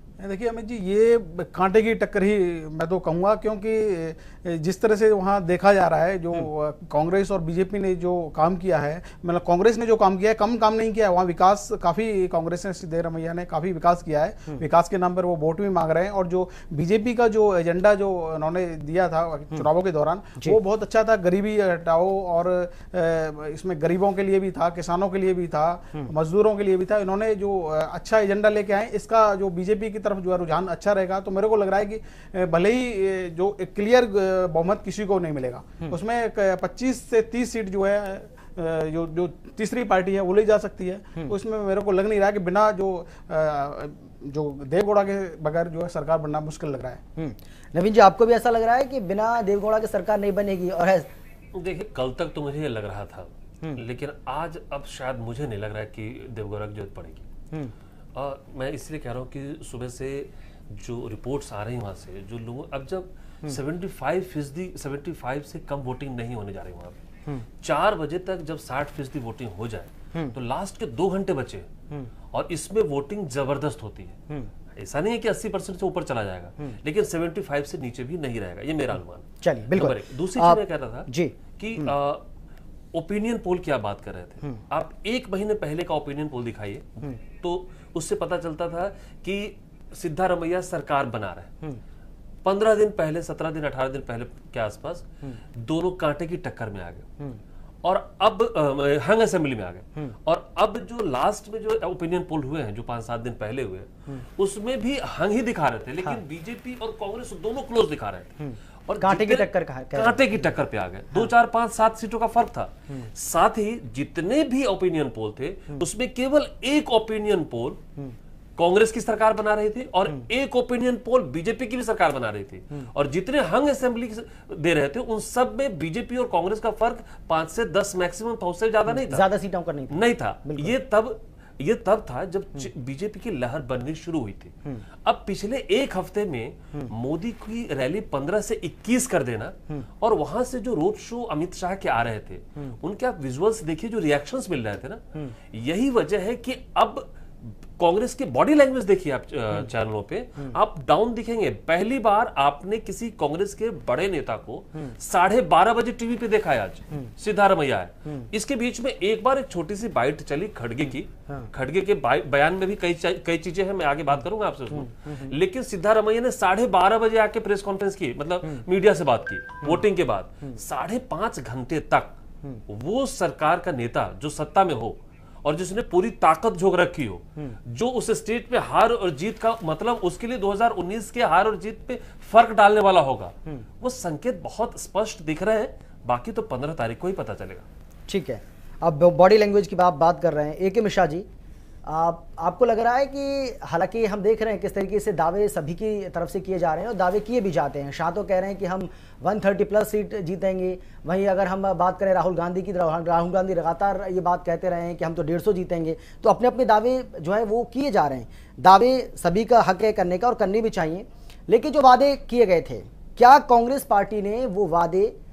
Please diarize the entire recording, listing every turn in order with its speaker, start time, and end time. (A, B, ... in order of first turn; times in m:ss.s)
0:00.2-0:47.0 A
0:47.2-0:51.1 B
0:51.5-0:57.2 C
0:58.2-1:07.0 C
1:07.6-1:11.7 C
1:12.3-1:14.2 C
1:14.8-1:22.2 C
1:19.4-1:21.9 B
1:22.9-1:31.6 C
1:32.4-1:37.1 C
1:37.8-1:57.8 C
1:48.5-1:50.4 B
1:58.6-2:09.3 C
2:08.9-2:10.8 B
2:09.9-3:07.6 C
3:08.1-3:11.3 B
3:11.8-3:35.2 B